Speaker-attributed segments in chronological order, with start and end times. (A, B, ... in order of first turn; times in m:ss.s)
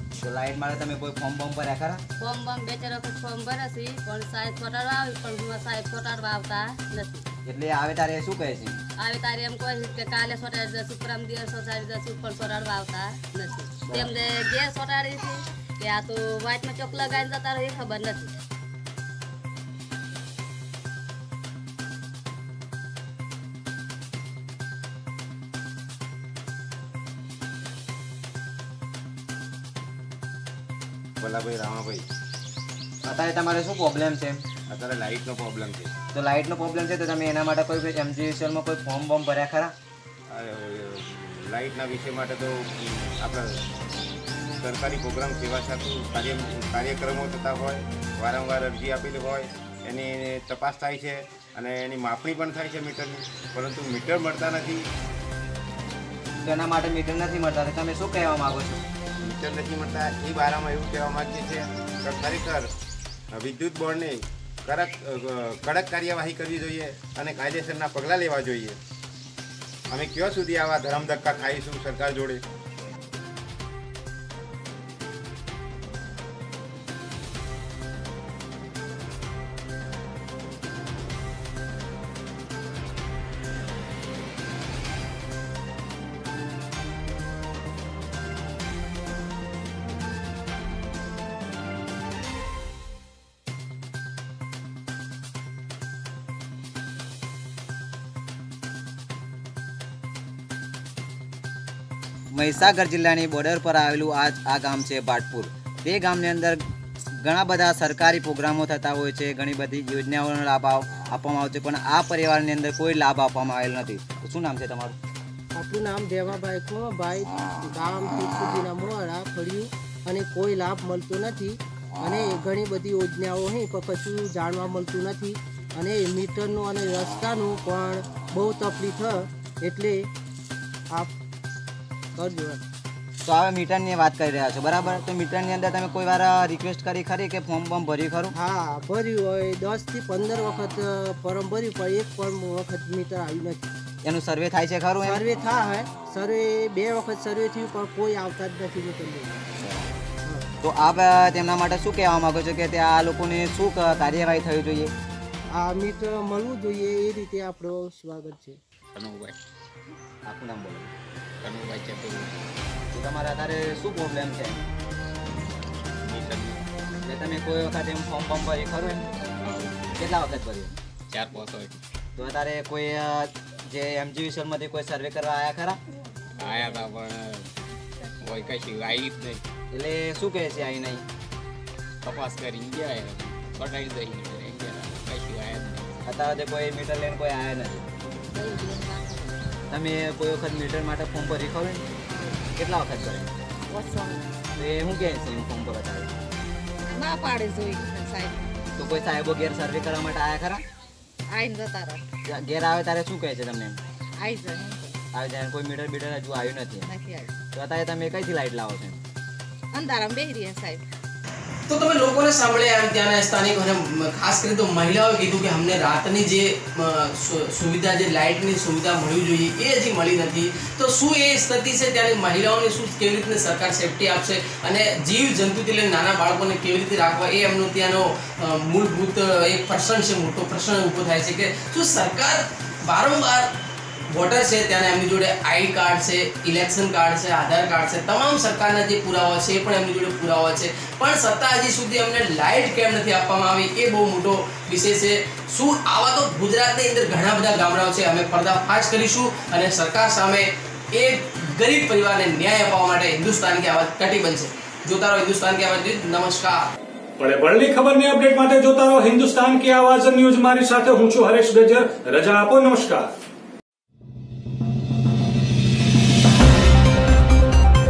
0:00.2-0:02.0 A
0:02.2-0:07.3 B
0:07.5-0:08.8 A
0:09.0-0:18.3 B
0:31.2-0:32.1 C
0:33.0-0:34.4 A
0:34.7-0:35.9 C
0:36.1-0:39.7 A
0:40.3-0:43.6 C
0:44.6-0:54.9 C
0:56.4-0:58.8 A
0:59.2-1:02.7 C
1:03.3-1:08.8 C
1:09.9-1:12.4 C
1:42.3-1:46.6 A
1:47.2-1:55.0 A
1:55.5-2:10.1 D
2:12.2-2:12.6 D
2:13.2-2:18.4 A
2:18.3-2:23.7 D
2:24.0-2:25.2 A
2:25.0-2:29.4 D
2:29.6-2:29.9 A
2:30.6-2:34.9 A
2:35.6-2:38.6 D
2:39.0-2:39.4 E
2:40.3-2:40.9 A
2:41.4-2:42.4 E
2:42.9-2:44.6 A
2:46.0-2:46.7 E
2:47.0-2:49.1 A
2:49.4-2:50.0 E
2:50.0-2:50.8 A
2:51.1-2:51.8 E
2:52.2-2:55.8 A
2:56.4-2:57.5 E
2:58.2-2:59.4 E
2:59.7-3:01.0 A
3:02.0-3:06.0 E
3:06.1-3:07.8 A
3:08.3-3:09.4 F
3:09.7-3:11.8 A
3:12.1-3:12.4 F
3:12.6-3:13.3 A
3:13.7-3:14.4 F
3:14.6-3:16.1 A
3:16.9-3:18.6 F
3:18.8-3:20.6 A
3:21.3-3:22.0 F
3:22.3-3:23.8 A
3:24.2-3:25.0 F
3:25.1-3:26.9 A
3:26.9-3:27.4 F
3:27.5-3:29.0 A
3:29.7-3:30.9 F
3:31.7-3:53.5 G
3:54.1-4:16.6 G
4:17.2-4:23.1 H